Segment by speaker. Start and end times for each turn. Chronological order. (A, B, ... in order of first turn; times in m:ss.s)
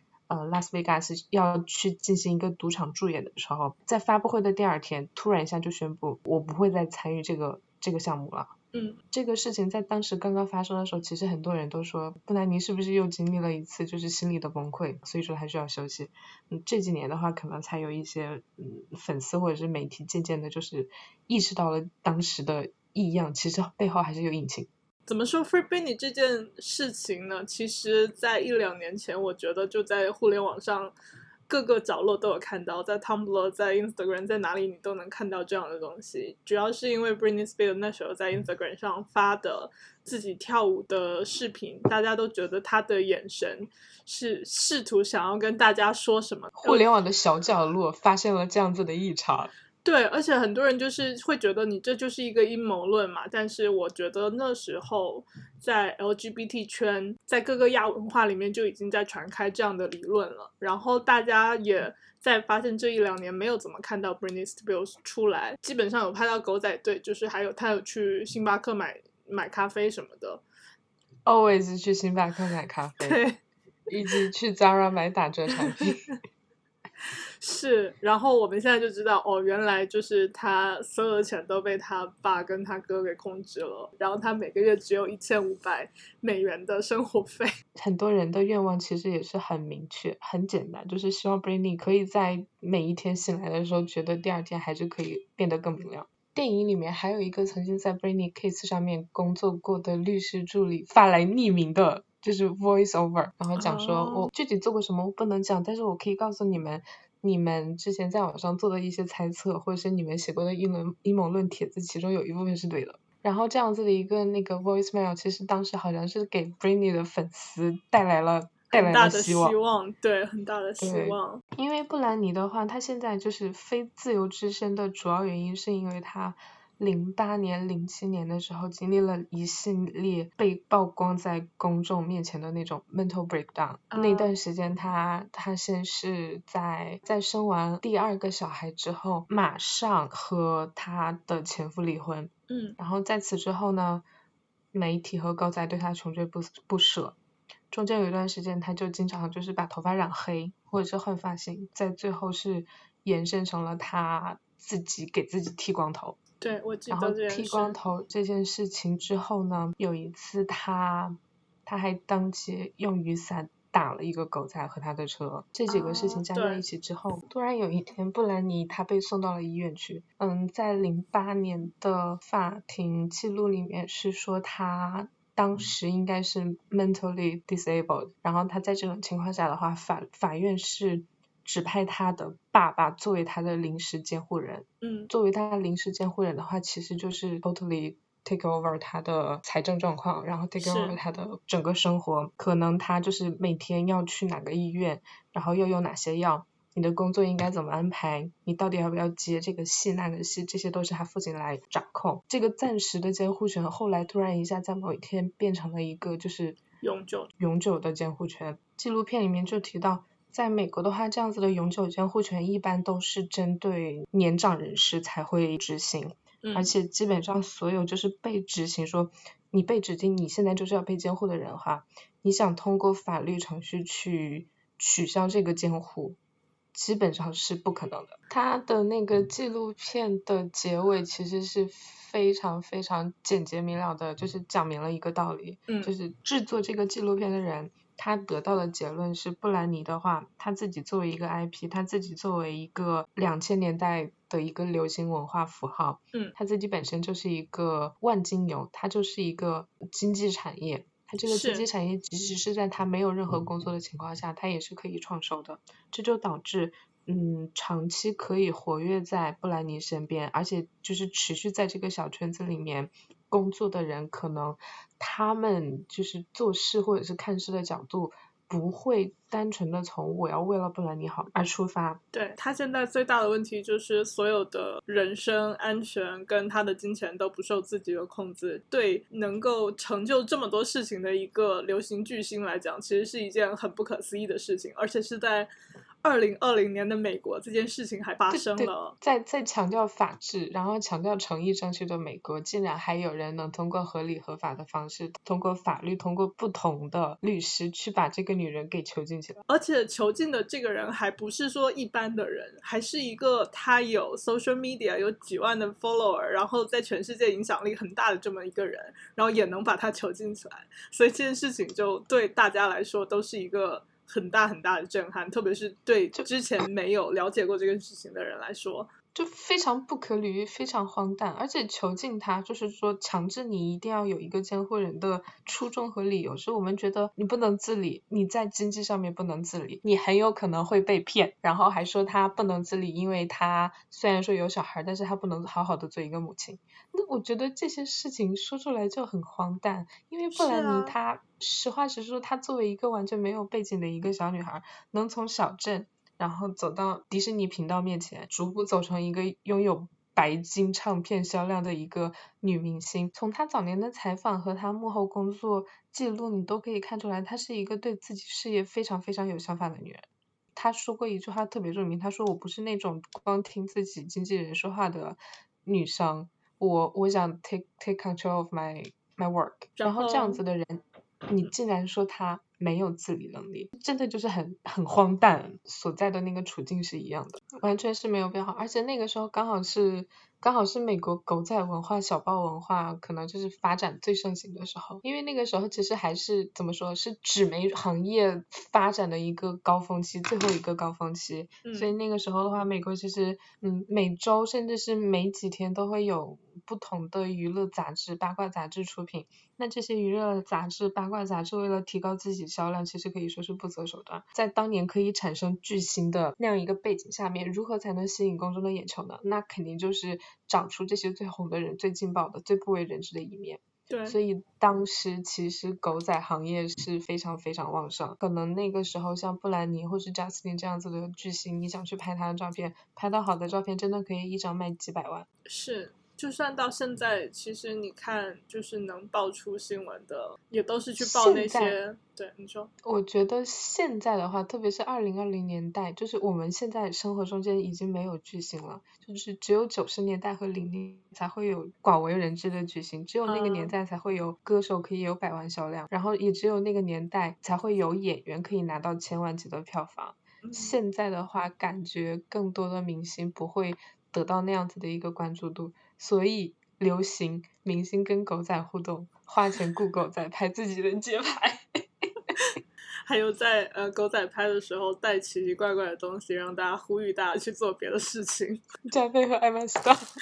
0:00.3-0:08.5 A
0:08.7-0:09.0 B
0:09.1-0:24.7 A
0:25.1-0:30.9 B
0:31.5-0:46.8 B
0:46.6-0:49.5 A
0:49.8-1:10.4 B
1:11.2-1:13.2 A
1:13.0-1:13.4 B
1:13.9-1:16.0 A
1:15.7-1:16.1 B
1:17.1-1:27.5 B
1:27.8-1:59.6 A
1:43.6-1:44.3 B
1:58.7-2:01.4 B
2:00.8-2:24.0 A
2:13.9-2:14.3 B
2:22.5-2:22.8 B
2:24.7-2:27.2 A
2:27.7-2:36.2 A
2:36.4-2:37.8 B
2:36.9-3:26.6 A
2:45.7-2:46.6 B
3:04.8-3:05.1 B
3:10.6-3:11.0 B
3:26.8-3:27.3 B
3:27.4-3:46.2 A
3:36.4-3:36.7 B
3:46.7-4:32.0 A
4:11.3-4:11.7 B
4:32.1-4:45.5 B
4:46.0-4:49.0 B
4:48.3-4:59.4 A
4:59.5-5:18.9 B
5:19.2-7:05.3 A
5:40.3-5:41.0 B
6:09.8-6:10.4 B
6:31.6-6:31.9 B
6:53.9-6:54.2 B
7:05.5-7:12.7 B
7:11.0-7:11.8 A
7:12.8-7:42.2 A
7:23.3-7:23.8 B
7:30.4-7:30.8 B
7:43.1-7:48.6 B
7:48.8-7:50.0 A